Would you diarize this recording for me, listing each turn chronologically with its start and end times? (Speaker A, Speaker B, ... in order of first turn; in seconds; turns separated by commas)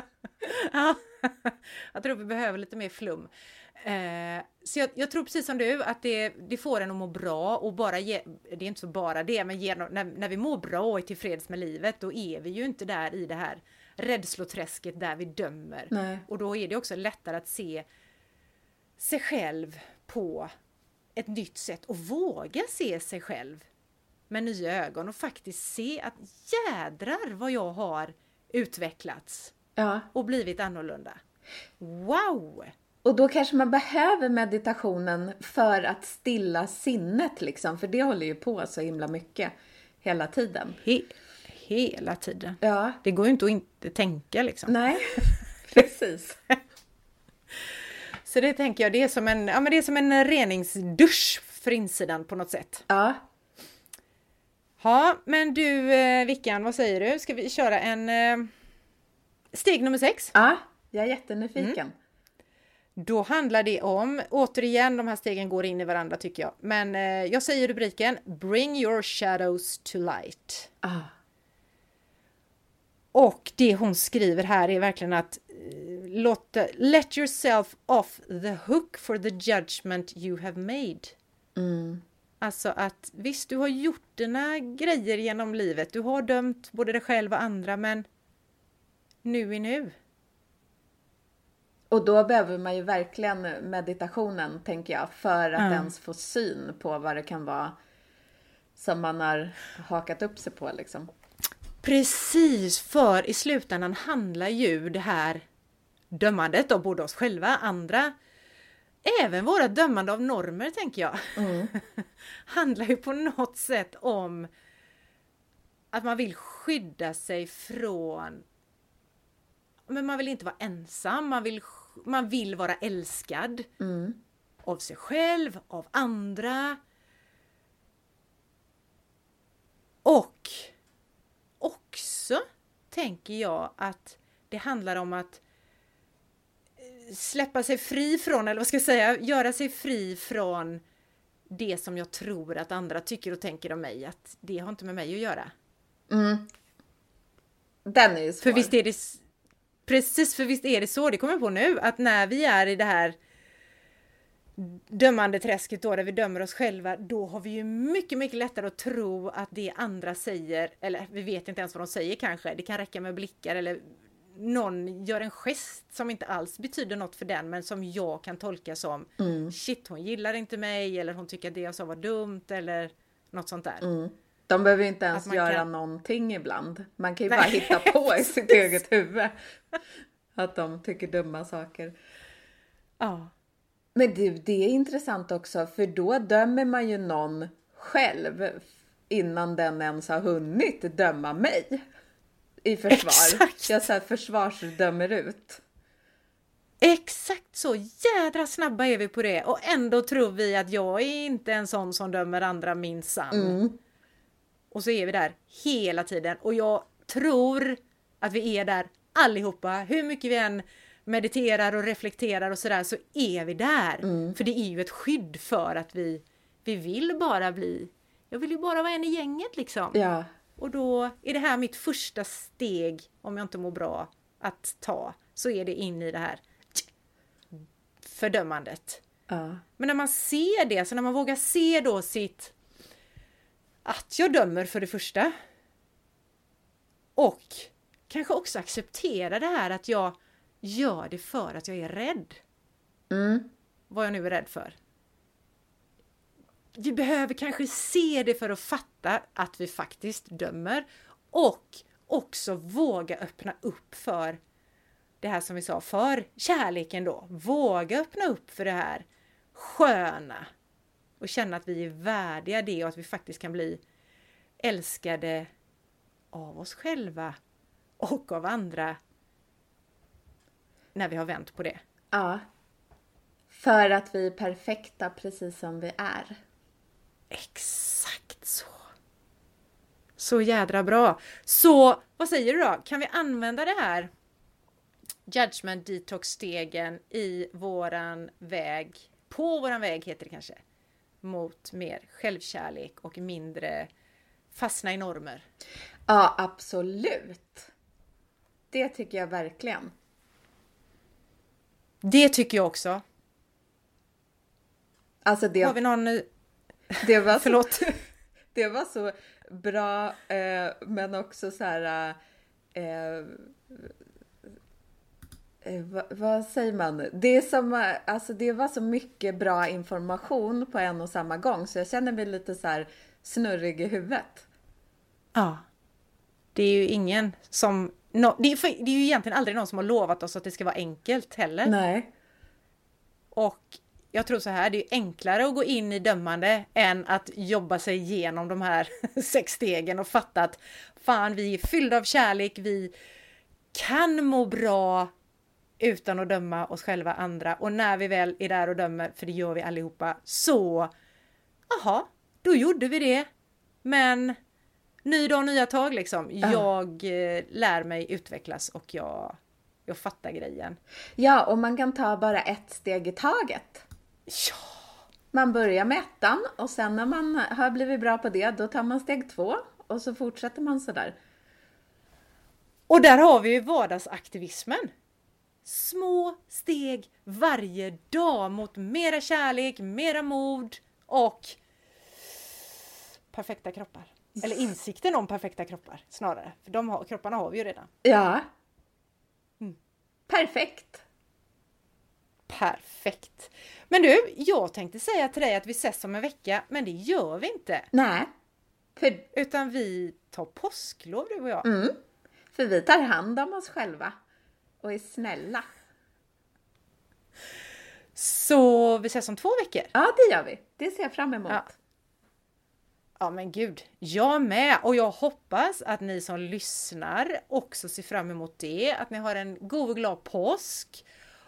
Speaker A: 0.4-17.9, Speaker B: 15.9-16.2, Speaker A: 19.0-20.5, Speaker A: 21.2-23.6, Speaker A: 24.3-29.6, Speaker B: 29.8-30.1, Speaker A: 30.1-31.2, Speaker A: 31.8-32.7, Speaker B: 33.0-40.8, Speaker A: 40.8-44.8, Speaker B: 42.6-43.0, Speaker B: 44.7-46.4, Speaker A: 47.6-52.9, Speaker B: 52.9-53.2, Speaker A: 54.8-58.5, Speaker A: 59.5-60.3, Speaker B: 60.3-61.9, Speaker A: 63.0-70.7, Speaker B: 70.8-71.1, Speaker A: 73.1-81.2, Speaker B: 81.6-82.0, Speaker A: 82.4-88.0, Speaker A: 89.2-90.0, Speaker B: 91.9-97.8, Speaker A: 95.6-95.9, Speaker B: 98.8-101.1, Speaker A: 101.8-105.4, Speaker A: 106.1-108.1, Speaker A: 109.0-114.5, Speaker B: 111.4-111.7, Speaker A: 115.9-118.4, Speaker A: 119.9-123.7, Speaker B: 123.8-124.2, Speaker A: 124.7-126.8, Speaker A: 130.1-130.7, Speaker A: 131.6-135.4, Speaker A: 136.8-140.8, Speaker A: 141.5-145.5, Speaker B: 146.1-146.5, Speaker B: 147.9-148.7, Speaker A: 148.4-149.2, Speaker A: 149.9-153.2, Speaker A: 154.6-173.9, Speaker B: 169.2-169.5, Speaker B: 173.8-179.4, Speaker A: 175.1-175.7, Speaker A: 177.3-178.7, Speaker B: 180.3-181.9, Speaker A: 183.0-183.3, Speaker B: 183.9-191.8, Speaker B: 192.7-195.6, Speaker A: 192.9-193.9, Speaker A: 196.8-203.6, Speaker B: 203.3-203.8, Speaker A: 204.7-220.1, Speaker B: 214.0-214.4, Speaker B: 219.9-220.3, Speaker A: 220.6-226.9, Speaker A: 228.0-229.0, Speaker B: 229.3-229.6, Speaker A: 229.8-232.5, Speaker A: 233.8-235.3, Speaker A: 237.2-242.4, Speaker B: 243.1-243.5, Speaker A: 243.9-244.8, Speaker A: 246.8-254.4, Speaker A: 255.2-260.5, Speaker A: 261.2-263.8, Speaker A: 264.6-265.5, Speaker A: 266.3-267.4, Speaker A: 268.0-269.0, Speaker A: 270.9-271.8, Speaker B: 272.1-272.4, Speaker B: 273.5-276.4, Speaker A: 277.3-278.9, Speaker A: 280.2-284.1, Speaker A: 285.3-290.6, Speaker A: 291.2-293.9, Speaker A: 294.5-295.4, Speaker B: 296.1-297.7, Speaker B: 298.7-299.9, Speaker A: 302.0-303.0, Speaker B: 305.2-305.8, Speaker A: 305.6-306.3, Speaker A: 306.9-307.9, Speaker B: 307.0-308.0, Speaker B: 308.5-312.2, Speaker B: 312.7-313.9, Speaker B: 315.6-324.5, Speaker A: 325.4-325.6, Speaker A: 326.6-331.7, Speaker B: 331.6-332.1, Speaker A: 333.3-342.9, Speaker A: 343.7-345.1, Speaker A: 345.8-350.9, Speaker A: 351.7-353.3, Speaker A: 353.8-354.4, Speaker A: 355.1-360.8, Speaker B: 361.2-363.9, Speaker A: 364.3-364.8, Speaker B: 365.3-371.1, Speaker A: 372.9-374.9, Speaker A: 375.6-381.6, Speaker A: 383.3-387.9, Speaker B: 388.0-388.5, Speaker B: 390.3-391.0, Speaker A: 392.5-397.9, Speaker B: 397.9-398.3, Speaker B: 399.0-399.3, Speaker A: 399.3-401.7, Speaker B: 401.6-402.0, Speaker B: 402.5-404.2, Speaker B: 404.8-405.7, Speaker A: 408.2-409.9, Speaker B: 409.9-411.8, Speaker A: 413.2-421.1